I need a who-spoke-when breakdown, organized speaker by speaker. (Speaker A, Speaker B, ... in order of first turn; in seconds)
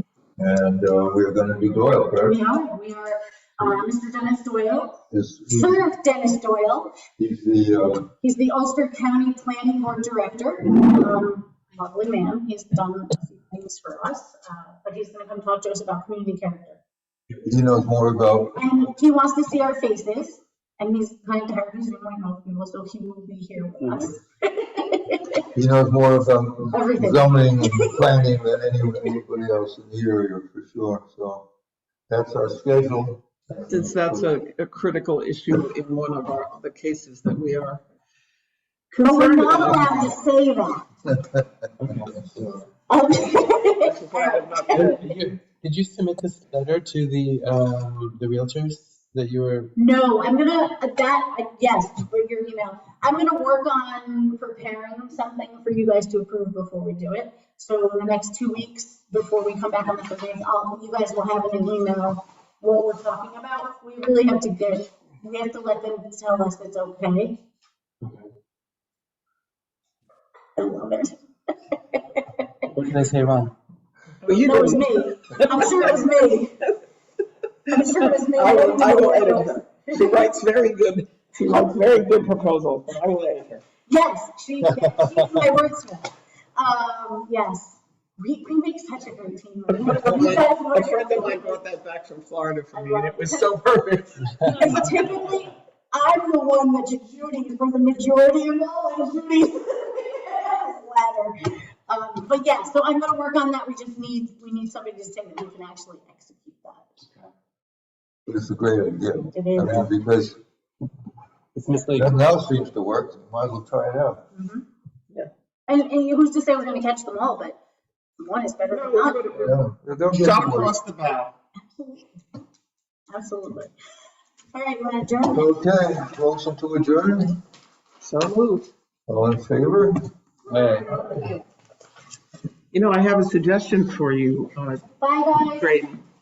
Speaker A: 0.4-2.4, 5.1-5.8, 7.2-8.1, 17.4-18.6, 25.5-31.5, 32.1-34.2, 42.0-42.6, 108.3-110.4, 111.9-114.2, 119.4-120.7, 125.3-127.4, 129.1-129.9, 130.5-130.9
Speaker B: 2.1-7.0, 8.2-16.8, 18.5-25.4, 26.7-28.1, 39.0-40.9, 42.9-45.0, 49.8-67.4, 70.5-71.1, 71.7-72.4, 74.4-76.5, 77.7-80.0, 83.9-91.6, 92.7-93.5, 94.4-101.4, 101.9-107.0, 109.3-109.9, 114.3-114.6, 115.7-117.6, 118.2-119.5, 121.7-122.0, 123.1-123.7, 124.5-125.5, 135.0-135.7
Speaker C: 33.6-37.8, 38.9-40.1, 43.8-45.0, 74.2-76.4, 78.3-83.6, 89.8-94.3, 118.7-119.5, 120.1-121.3, 128.0-128.7, 132.7-134.8, 135.4-136.0
Speaker D: 41.8-42.3, 44.7-49.7, 72.7-73.5, 111.5-112.2, 130.5-131.0